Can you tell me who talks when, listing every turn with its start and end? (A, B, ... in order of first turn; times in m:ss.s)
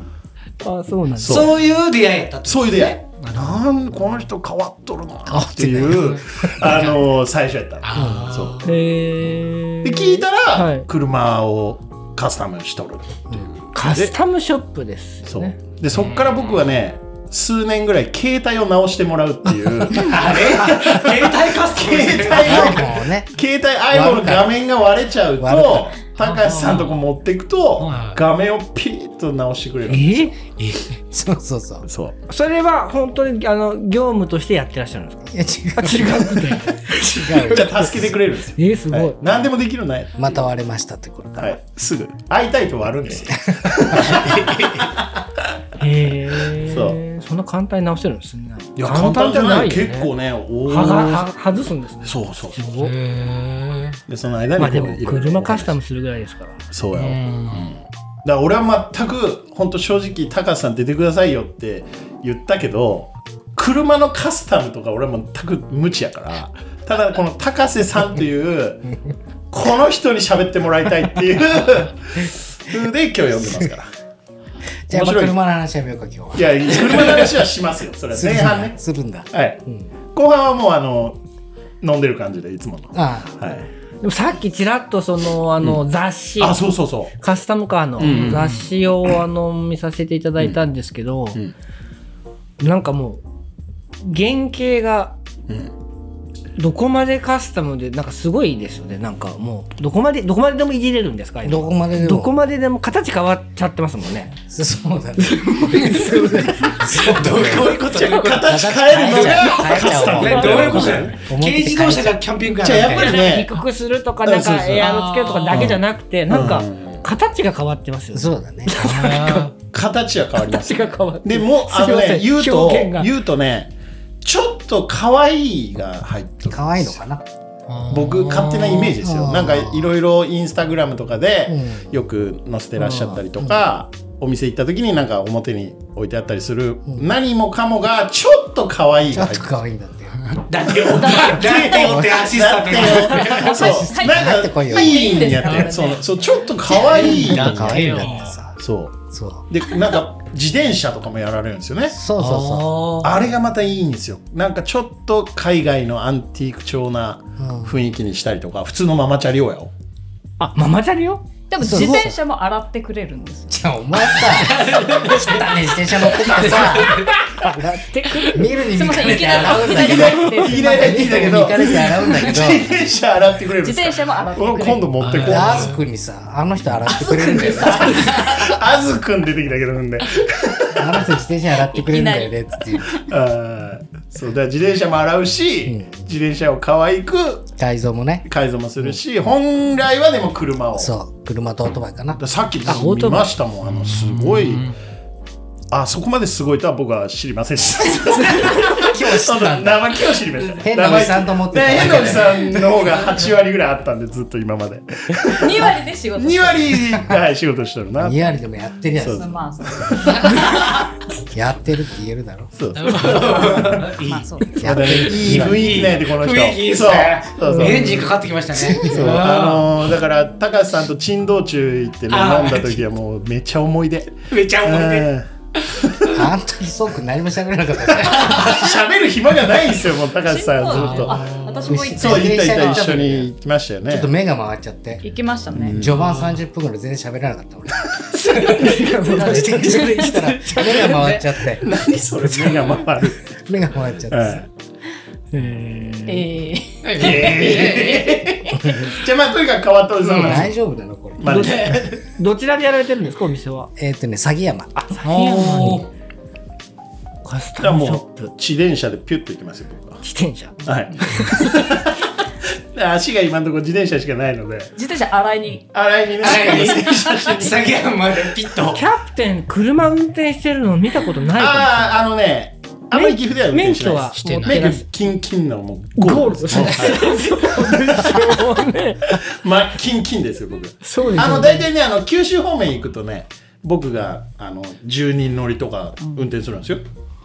0:00.6-0:01.5 A
0:01.2-0:01.5 B
0:01.2-0:03.6 C
0:02.4-0:08.6 B
0:05.3-0:06.2 D
0:05.8-0:06.9 C
0:07.8-0:08.7 C
0:07.9-0:08.3 D
0:08.6-0:10.9 A
0:09.8-0:14.1 B
0:13.7-0:15.6 A
0:15.2-0:30.3 B
0:16.0-0:16.6 C
0:19.9-0:22.9 C
0:22.3-0:23.3 D
0:23.9-0:24.6 D
0:25.4-0:25.9 D
0:26.2-0:27.0 C
0:27.8-0:28.2 C
0:29.9-0:30.3 A
0:30.6-0:30.8 C
0:31.1-0:31.9 D
0:31.8-0:32.2 B
0:32.3-0:37.9 A
0:35.3-0:37.8 D
0:37.4-0:40.3 B
0:38.6-0:39.2 A
0:40.2-0:41.6 D
0:41.4-0:45.4 B
0:43.4-0:44.2 D
0:44.2-0:44.8 C
0:45.8-0:50.1 A
0:46.6-0:47.0 B
0:48.8-0:51.3 B
0:50.6-0:52.9 A
0:52.0-0:52.7 B
0:52.7-0:54.0 C
0:54.1-0:55.7 B
0:54.6-0:56.6 A
0:56.7-1:08.8 B
0:56.9-0:57.7 C
1:09.5-1:13.9 B
1:14.9-1:17.2 D
1:14.9-1:15.4 B
1:16.3-1:18.8 B
1:18.1-1:19.9 D
1:19.3-1:19.6 B
1:20.1-1:21.2 B
1:21.8-1:23.7 B
1:22.9-1:23.4 D
1:24.0-1:26.6 A
1:26.4-1:27.1 B
1:27.1-1:31.4 A
1:28.0-1:28.4 B
1:28.0-1:28.6 C
1:32.6-1:33.2 A
1:34.0-1:35.2 A
1:36.6-1:44.4 A
1:41.4-1:42.3 D
1:44.5-1:47.8 D
1:45.2-1:46.9 A
1:45.8-1:53.3 C
1:47.8-1:51.2 B
1:48.4-1:50.7 D
1:50.3-1:50.7 A
1:51.3-1:52.2 D
1:52.6-1:53.6 B
1:52.9-1:59.5 A
1:54.2-1:54.9 B
1:54.8-1:55.7 C
1:55.5-1:57.0 B
1:58.1-1:59.2 D
1:58.8-1:59.5 C
1:59.7-2:07.0 B
2:00.4-2:03.1 A
2:06.5-2:07.2 D
2:07.7-2:08.9 C
2:07.9-2:19.6 B
2:09.0-2:09.9 D
2:11.5-2:11.9 D
2:12.9-2:13.6 D
2:19.1-2:20.2 D
2:20.2-2:23.5 C
2:20.8-2:28.9 B
2:20.9-2:22.0 E
2:23.3-2:27.1 E
2:23.4-2:25.5 D
2:26.7-2:28.3 C
2:27.0-2:28.6 D
2:29.1-2:29.4 D
2:29.5-2:32.0 B
2:31.9-2:32.9 D
2:32.2-2:33.2 C
2:33.0-2:39.7 B
2:37.4-2:37.8 D
2:40.4-2:41.9 A
2:41.5-2:43.6 E
2:41.6-2:42.2 D
2:43.5-2:52.7 D
2:44.2-2:47.2 C
2:47.0-2:48.5 A
2:48.6-2:51.8 E
2:49.1-2:50.0 C
2:49.4-2:55.8 B
2:53.6-2:54.9 E
2:55.0-2:55.8 C
2:55.2-2:58.2 D
2:57.0-2:58.2 E
2:57.6-3:01.1 B
3:00.7-3:03.0 D
3:01.7-3:02.3 E
3:02.8-3:07.5 B
3:05.6-3:06.0 D
3:07.6-3:08.2 D
3:08.2-3:10.9 B
3:10.8-3:12.2 D
3:12.2-3:14.7 B
3:12.6-3:13.4 A
3:13.7-3:14.7 C
3:15.7-3:28.3 B
3:18.5-3:22.5 D
3:25.3-3:26.9 E
3:26.9-3:27.2 D
3:28.0-3:29.4 D
3:29.0-3:30.3 B
3:29.0-3:30.4 E
3:30.2-3:30.8 C
3:31.3-3:32.5 D
3:32.6-3:33.9 B
3:32.8-3:39.8 C
3:33.3-3:34.6 E
3:34.6-3:36.0 D
3:34.6-3:38.1 B
3:37.4-3:38.0 A
3:38.5-3:39.2 D
3:38.8-3:45.3 B
3:42.1-3:42.8 C
3:44.3-3:45.1 C
3:45.8-3:46.2 B
3:46.1-3:48.7 D
3:47.9-3:54.1 B
3:50.2-3:53.0 E
3:50.7-3:51.8 C
3:51.7-3:53.3 D
3:53.9-3:55.0 D
3:55.0-3:55.8 E
3:55.6-3:56.0 B
3:55.6-4:01.6 D
3:58.1-4:01.2 A
3:59.0-4:00.2 E
4:00.7-4:01.2 E
4:01.6-4:03.4 B
4:03.3-4:04.4 D
4:04.1-4:04.5 B
4:05.3-4:06.3 A
4:06.1-4:06.8 E
4:06.8-4:08.2 C
4:06.9-4:10.5 B
4:10.1-4:10.4 C
4:10.2-4:11.5 D
4:11.2-4:11.8 B
4:11.2-4:13.7 A
4:11.4-4:11.9 C
4:13.8-4:14.7 D
4:14.8-4:15.9 A
4:15.0-4:15.9 C
4:17.2-4:18.3 A
4:17.6-4:20.0 B
4:20.0-4:21.8 A
4:20.6-4:22.0 B
4:22.7-4:24.7 B
4:24.8-4:25.7 E
4:25.7-4:27.6 B
4:26.2-4:28.8 C
4:26.2-4:26.8 E
4:28.7-4:32.0 A
4:31.4-4:38.4 B
4:32.9-4:34.8 A
4:34.2-4:34.7 C
4:36.0-4:39.2 A
4:39.1-4:46.8 B
4:40.8-4:41.7 A